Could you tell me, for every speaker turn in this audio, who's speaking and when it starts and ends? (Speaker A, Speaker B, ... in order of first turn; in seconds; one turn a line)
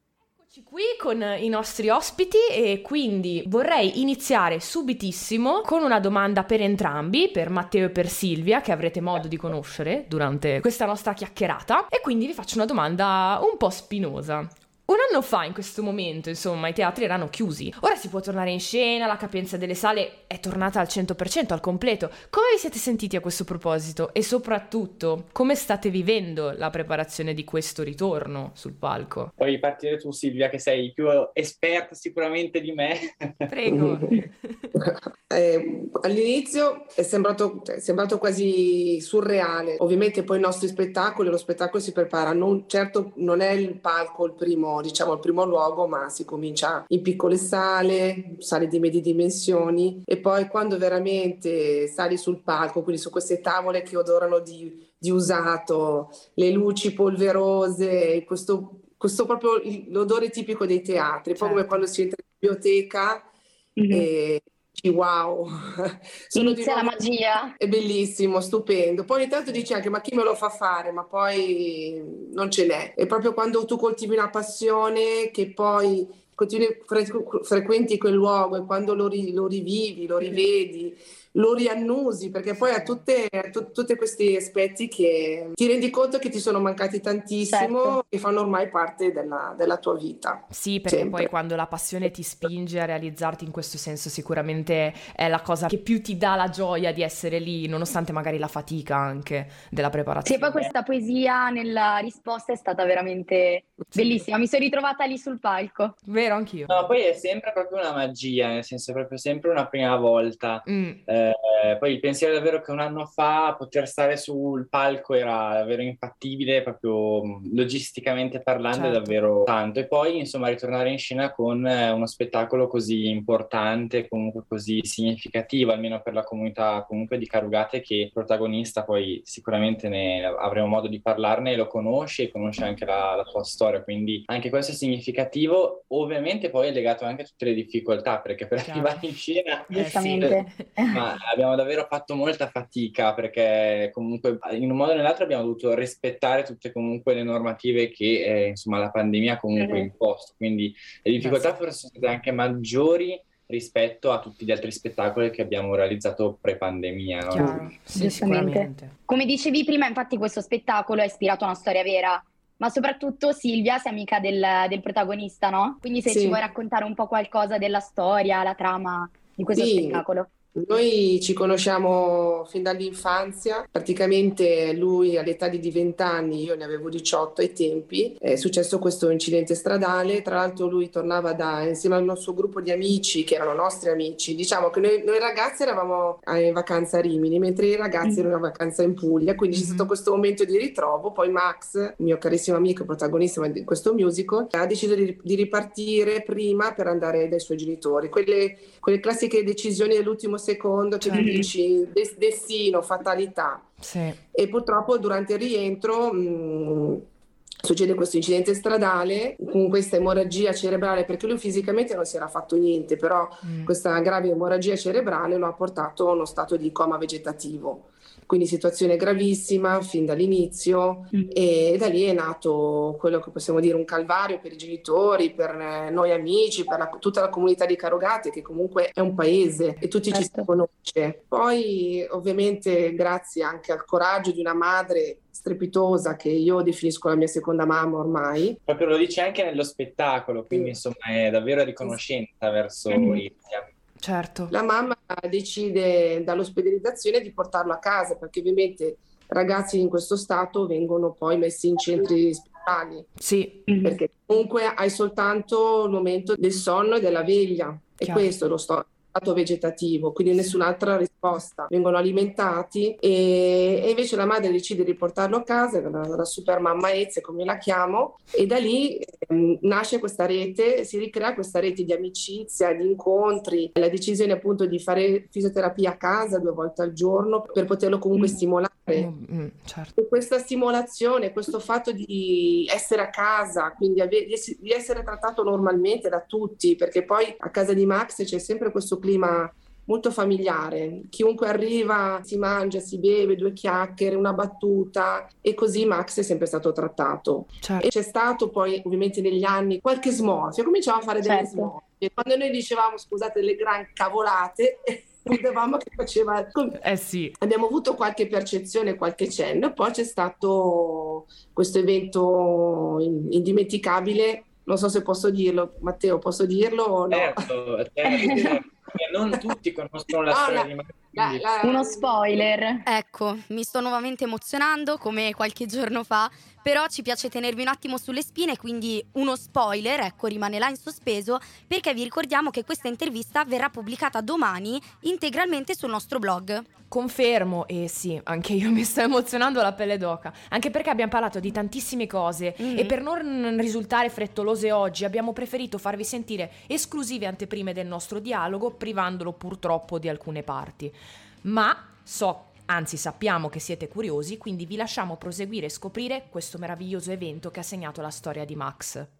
Speaker A: 0.4-29.3
Speaker B: 29.4-33.5
Speaker A: 33.5-34.7
Speaker C: 33.7-34.0
Speaker C: 34.7-63.3
Speaker A: 61.4-61.8
Speaker D: 63.8-64.1
Speaker C: 63.9-67.0
Speaker D: 66.3-67.5
Speaker C: 67.6-91.3
Speaker A: 82.6-83.0
Speaker D: 87.5-88.0
Speaker A: 90.5-100.7
Speaker D: 100.2-106.0
Speaker A: 103.9-104.2
Speaker A: 106.1-106.7
Speaker B: 106.7-140.3
Speaker A: 110.7-111.0
Speaker A: 118.7-119.2
Speaker A: 138.6-139.0
Speaker A: 139.7-140.8
Speaker D: 139.7-141.0
Speaker B: 140.9-157.6
Speaker D: 149.6-149.9
Speaker A: 151.2-151.6
Speaker A: 157.3-158.9
Speaker D: 157.9-170.3
Speaker C: 166.0-166.4
Speaker C: 169.5-170.0
Speaker C: 170.5-203.7
Speaker A: 189.5-189.9
Speaker A: 201.0-201.4
Speaker D: 201.2-201.5
Speaker A: 203.8-204.2
Speaker C: 204.3-207.0
Speaker C: 207.6-238.6
Speaker A: 213.4-213.7
Speaker D: 230.1-230.4
Speaker B: 238.7-243.7
Speaker A: 244.0-244.5
Speaker C: 244.5-253.1
Speaker A: 253.2-253.6
Speaker D: 253.7-254.0
Speaker C: 253.8-279.1
Speaker A: 258.0-258.3
Speaker A: 278.9-279.9
Speaker C: 279.9-306.8
Speaker A: 297.6-297.9
Speaker D: 301.2-301.7
Speaker A: 306.8-307.3
Speaker C: 307.4-317.4
Speaker B: 317.1-321.4
Speaker D: 318.1-318.5
Speaker C: 318.2-318.5
Speaker C: 320.3-322.5
Speaker D: 321.6-322.9
Speaker E: 322.9-336.7
Speaker A: 336.9-359.1
Speaker E: 342.6-342.9